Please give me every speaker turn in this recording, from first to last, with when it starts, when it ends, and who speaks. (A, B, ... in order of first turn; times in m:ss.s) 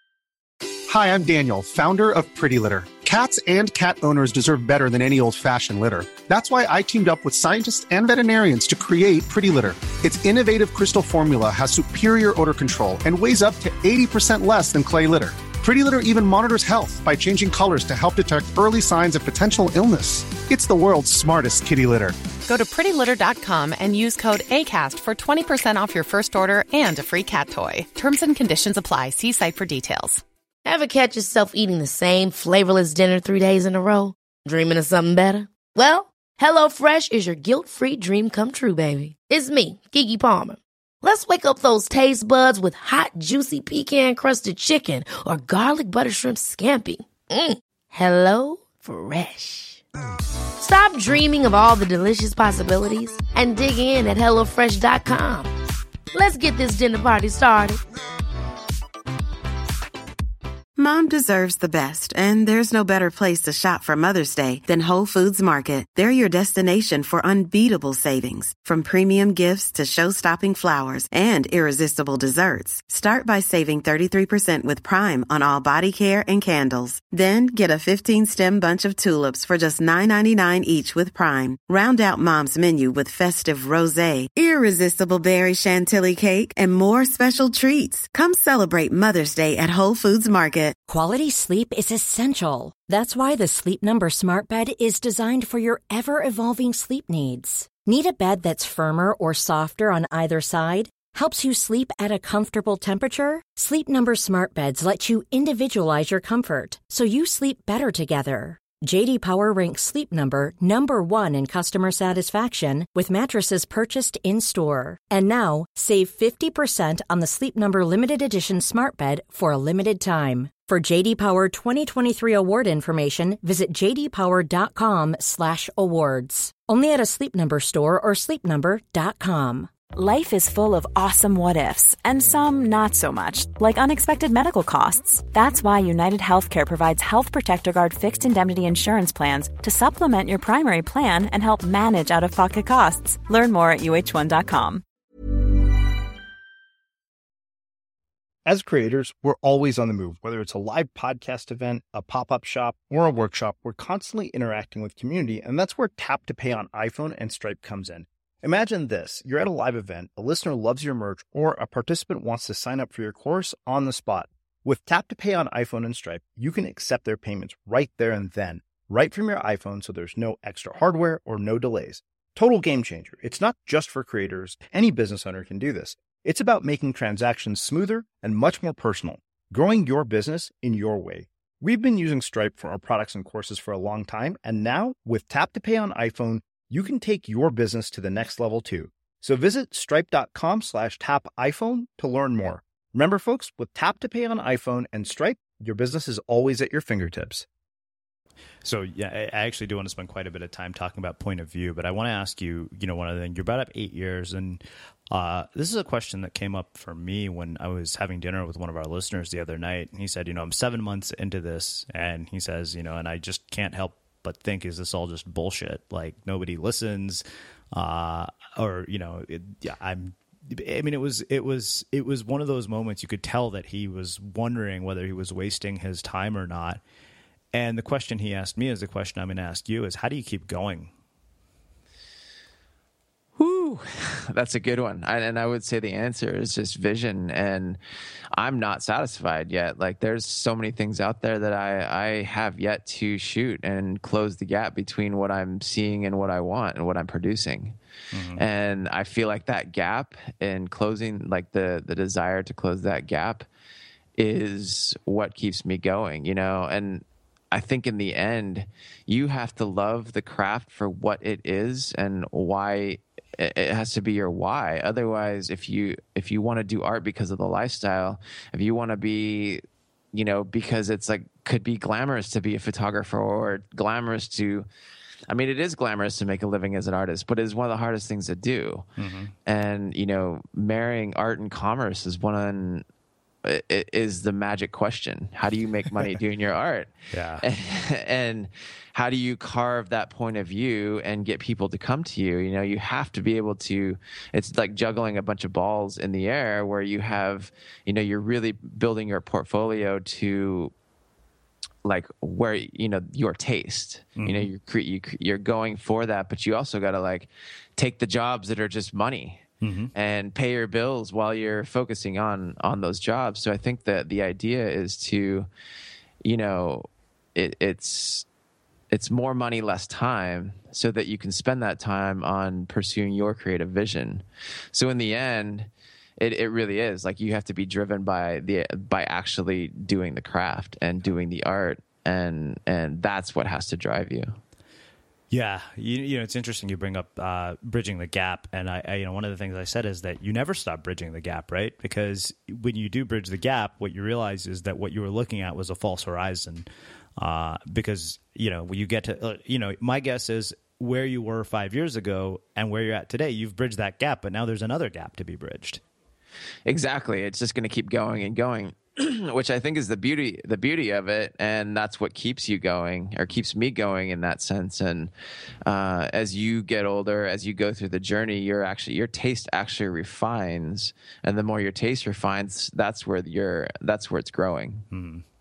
0:00.9-0:22.2 A
0:22.4-0:30.2 B
0:30.6-0:49.8 C
0:50.6-0:55.5 C
0:56.1-0:57.8 C
1:00.8-1:30.8 D
1:30.9-2:09.7 E
2:09.9-2:24.8 F
2:28.4-3:17.4 G
3:18.6-3:46.8 H
3:47.5-3:50.9 H
3:53.4-3:57.8 I
3:58.3-4:07.8 I
4:08.1-4:08.4 H
4:08.3-4:13.4 I
4:14.2-4:29.6 I
4:30.1-4:34.6 I
4:35.3-4:38.8 I
4:39.0-4:39.3 H
4:39.4-4:42.8 I
4:43.4-5:00.7 I
4:47.1-4:47.4 H
5:01.8-5:09.4 I
5:04.2-5:04.5 H
5:09.6-5:09.9 H
5:09.9-5:15.5 I
5:16.2-5:18.2 I
5:18.9-5:34.4 I
5:35.3-5:55.8 H
5:56.6-6:05.1 I
6:05.6-6:14.8 I
6:14.9-6:15.2 H